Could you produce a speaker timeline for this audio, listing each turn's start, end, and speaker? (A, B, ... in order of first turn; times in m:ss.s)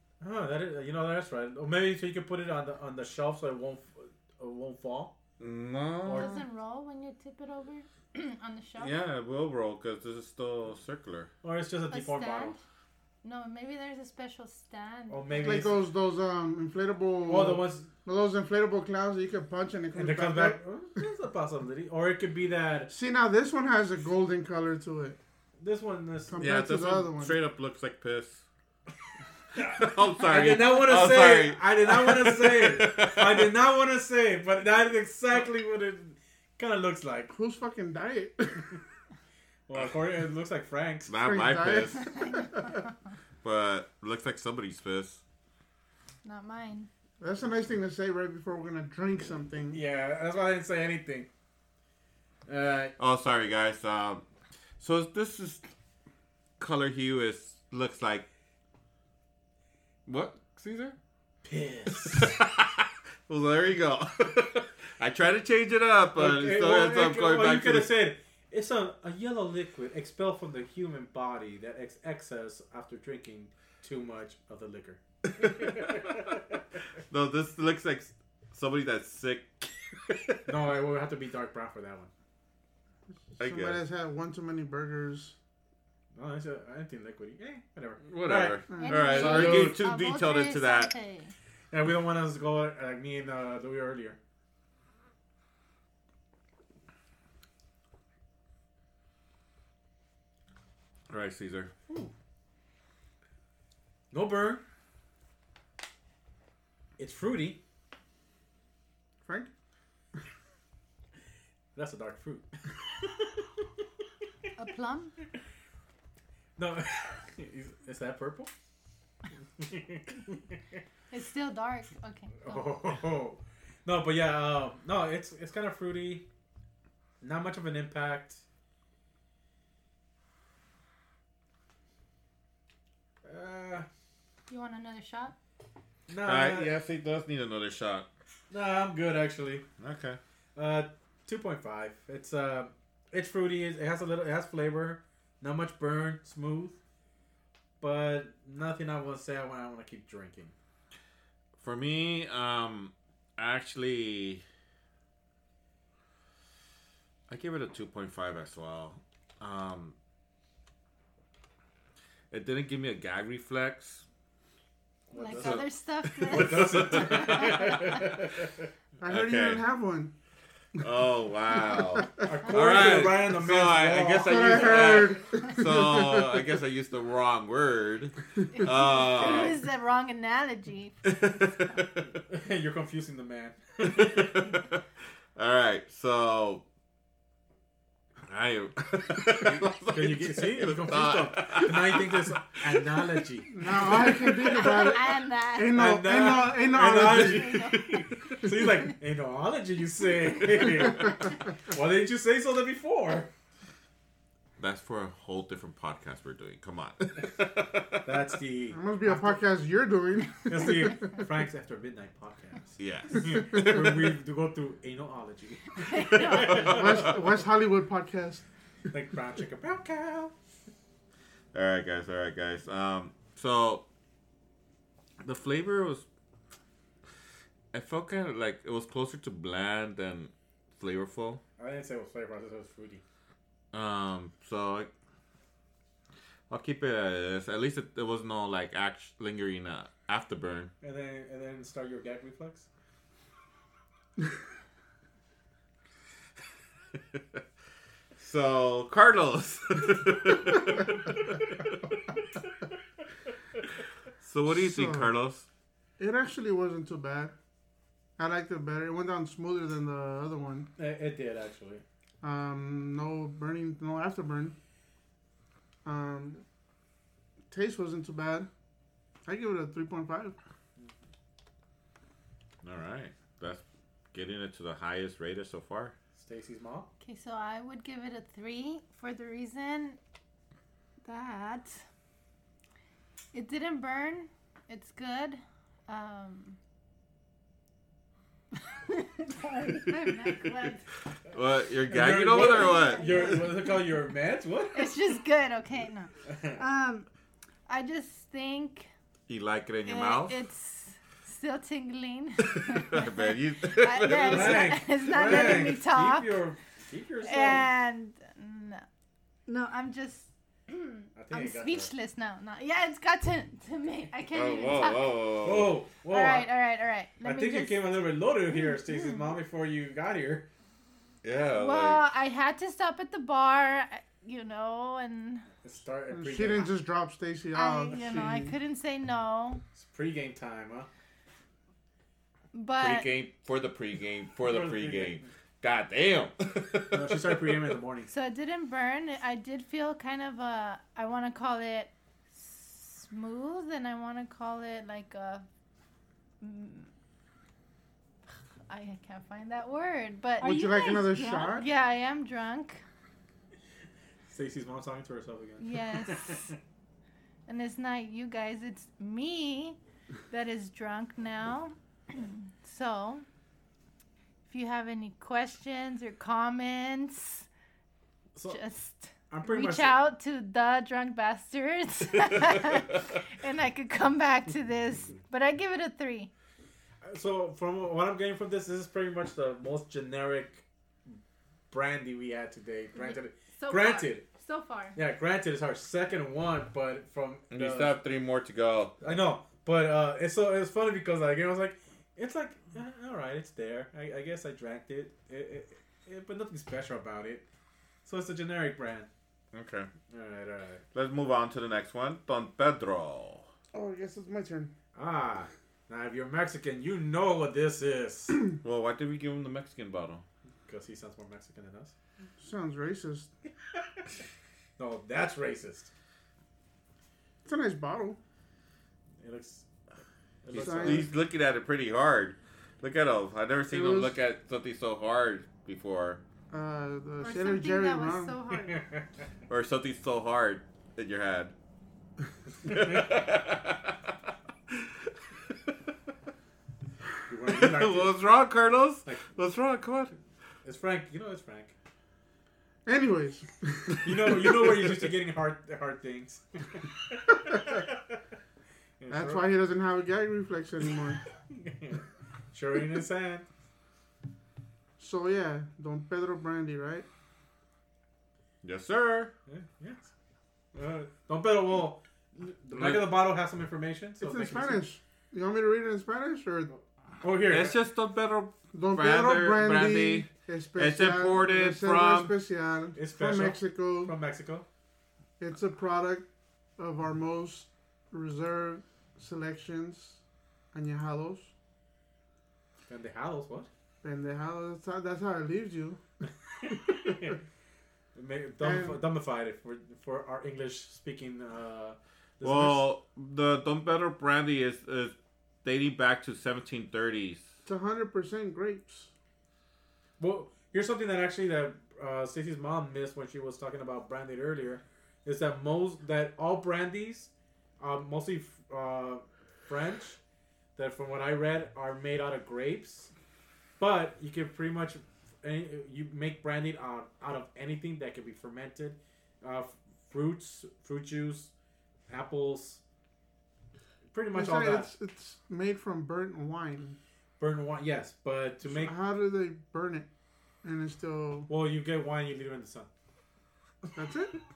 0:00.2-0:05.2 A
0:05.4-0:06.4 B
0:06.1-0:06.3 A
0:06.1-0:08.9 C
0:08.8-0:11.3 B
0:11.4-0:12.6 A
0:11.9-0:12.6 C
0:13.2-0:15.7 C
0:15.1-0:15.8 A
0:15.4-0:20.6 D
0:17.3-0:17.9 A
0:19.9-0:22.9 A
0:22.9-0:25.2 D
0:25.6-0:26.4 A
0:26.3-0:27.4 D
0:26.4-0:28.4 B
0:29.6-0:33.5 B
0:29.6-0:37.3 A
0:37.3-0:38.7 D
0:39.7-0:41.1 A
0:41.1-0:42.2 B
0:41.2-0:42.6 D
0:42.2-0:42.4 C
0:43.4-0:45.2 B
0:46.2-0:46.9 C
0:47.2-0:49.8 D
0:49.7-0:51.3 A
0:52.5-0:53.0 A
0:53.0-0:54.2 B
0:54.8-0:55.7 B
0:56.6-0:58.3 B
1:00.1-1:01.0 B
1:01.4-1:02.3 A
1:02.0-1:07.9 B
1:06.2-1:16.4 A
1:15.4-1:15.9 B
1:17.1-1:20.4 B
1:20.5-1:22.1 A
1:23.2-1:25.4 D
1:23.4-1:23.8 B
1:26.1-1:29.7 A
1:28.0-1:30.9 B
1:28.7-1:29.7 D
1:28.8-1:31.3 C
1:31.7-1:34.2 A
1:41.1-1:41.7 B
1:44.1-1:44.6 A
1:47.0-1:47.6 A
1:49.2-1:49.5 D
1:51.8-1:53.4 A
1:54.6-1:55.1 C
1:56.6-1:58.5 A
1:59.6-2:00.5 A
2:01.1-2:02.7 C
2:02.4-2:06.3 A
2:07.2-2:08.4 A
2:13.2-2:13.9 A
2:14.5-2:15.4 C
2:16.1-2:16.8 A
2:16.2-2:18.1 B
2:18.5-2:19.6 A
2:19.8-2:20.2 B
2:20.6-2:26.8 A
2:27.8-2:30.6 A
2:31.6-2:34.4 B
2:37.3-2:40.0 B
2:42.3-2:44.0 B
2:45.1-2:45.6 A
2:45.1-2:47.9 C
2:45.4-2:48.0 B
2:46.3-2:48.6 A
2:49.0-2:50.1 D
2:49.1-2:49.6 B
2:50.8-2:59.6 B
2:51.7-2:52.0 D
2:52.2-2:55.1 A
2:54.2-2:56.4 D
2:58.5-3:01.1 C
3:01.0-3:02.1 B
3:02.3-3:04.5 A
3:03.8-3:04.8 B
3:05.4-3:06.6 B
3:08.3-3:13.2 B
3:09.9-3:13.5 A
3:13.5-3:17.7 D
3:14.2-3:16.0 C
3:15.8-3:23.3 A
3:17.0-3:18.0 C
3:24.6-3:28.2 B
3:28.0-3:29.4 A
3:28.7-3:31.1 D
3:30.5-3:37.1 A
3:32.8-3:34.2 B
3:35.9-3:36.5 C
3:36.0-3:37.1 B
3:36.6-3:38.4 D
3:38.9-3:40.3 A
3:41.5-3:43.8 B
3:45.2-3:46.1 B
3:47.7-3:51.4 B
3:51.6-3:53.0 A
3:53.7-3:54.9 B
3:56.5-4:00.7 B
4:00.8-4:02.7 A
4:08.2-4:11.7 B
4:14.2-4:15.5 B
4:14.5-4:15.1 D
4:16.0-4:17.3 D
4:18.2-4:20.7 D
4:20.8-4:21.8 A
4:22.2-4:24.6 D
4:25.8-4:26.4 D
4:27.5-4:28.5 D
4:29.2-4:30.4 D
4:32.6-4:35.9 B
4:36.2-4:36.9 A
4:37.0-4:40.0 C
4:41.0-4:41.8 C
4:43.3-4:46.6 C
4:48.9-4:50.8 C
4:51.3-4:53.3 B
4:51.9-4:54.9 A
4:52.4-4:53.8 C
4:54.7-4:57.1 C
4:56.3-4:56.6 A
4:57.7-4:58.9 C
4:59.3-5:00.4 B
4:59.8-5:06.3 C
5:02.5-5:05.5 B
5:04.1-5:07.7 A
5:07.2-5:08.9 C
5:09.5-5:15.2 C
5:11.2-5:11.9 A
5:14.3-5:15.8 B
5:15.4-5:16.5 A
5:16.1-5:17.9 C
5:17.2-5:20.5 A
5:18.5-5:19.3 C
5:21.2-5:22.0 B
5:21.5-5:25.4 C
5:25.6-5:26.7 A
5:26.1-5:28.6 D
5:27.5-5:29.6 C
5:29.8-5:30.9 A
5:32.5-5:33.1 C
5:32.8-5:37.6 B
5:34.4-5:35.2 A
5:36.9-5:38.1 A
5:38.1-5:45.4 C
5:46.4-5:46.9 C
5:48.7-5:52.8 C
5:50.4-5:51.7 D
5:54.3-5:56.6 A
5:55.6-5:56.5 C
5:57.5-5:59.8 C
6:00.3-6:03.2 C
6:04.5-6:07.5 C
6:08.4-6:08.6 A
6:08.5-6:16.3 C
6:09.3-6:10.0 A
6:17.0-6:21.2 A
6:21.7-6:24.2 A
6:23.0-6:25.0 C
6:25.0-6:28.0 A
6:27.5-6:29.0 B
6:29.0-6:37.4 A
6:38.0-6:39.1 A
6:39.5-6:39.9 B
6:40.1-6:40.8 A
6:40.9-6:43.5 B
6:43.7-6:44.7 D
6:44.9-6:48.4 A
6:48.6-6:50.2 B
6:50.7-6:52.0 A
6:52.4-6:53.3 D
6:54.8-6:55.9 A
6:57.4-6:58.2 D
6:59.2-6:59.7 A
7:00.4-7:01.1 A
7:00.5-7:06.2 B
7:00.6-7:01.1 D
7:03.7-7:04.2 D
7:06.5-7:08.4 D
7:07.2-7:08.8 C
7:08.7-7:09.0 A
7:09.5-7:11.5 B
7:12.6-7:14.0 B
7:17.3-7:18.1 A
7:17.5-7:20.2 B
7:20.6-7:21.8 A
7:22.9-7:25.0 D
7:24.0-7:28.2 A
7:29.0-7:29.4 A
7:29.1-7:31.2 D
7:31.5-7:33.5 A
7:35.0-7:37.1 D
7:38.6-7:39.3 B
7:39.5-7:40.1 A
7:40.7-7:44.8 A
7:42.7-7:43.2 B
7:44.2-7:46.7 D
7:46.7-7:47.8 A
7:47.5-7:52.3 B
7:48.7-7:54.2 D
7:53.0-7:54.7 A
7:55.4-8:00.2 D
8:00.7-8:01.5 D
8:02.9-8:03.7 A
8:04.0-8:06.0 D
8:06.6-8:07.4 A
8:08.2-8:12.9 A
8:08.6-8:09.0 D
8:12.4-8:17.5 B
8:17.7-8:19.1 D
8:20.2-8:30.2 A
8:30.8-8:33.1 A
8:33.8-8:41.5 A
8:42.1-8:42.8 A
8:44.1-8:44.9 A
8:44.3-8:47.0 D
8:47.4-8:48.9 A
8:48.6-8:50.1 D
8:50.6-8:51.5 D
8:51.5-8:52.9 A
8:54.0-8:54.3 D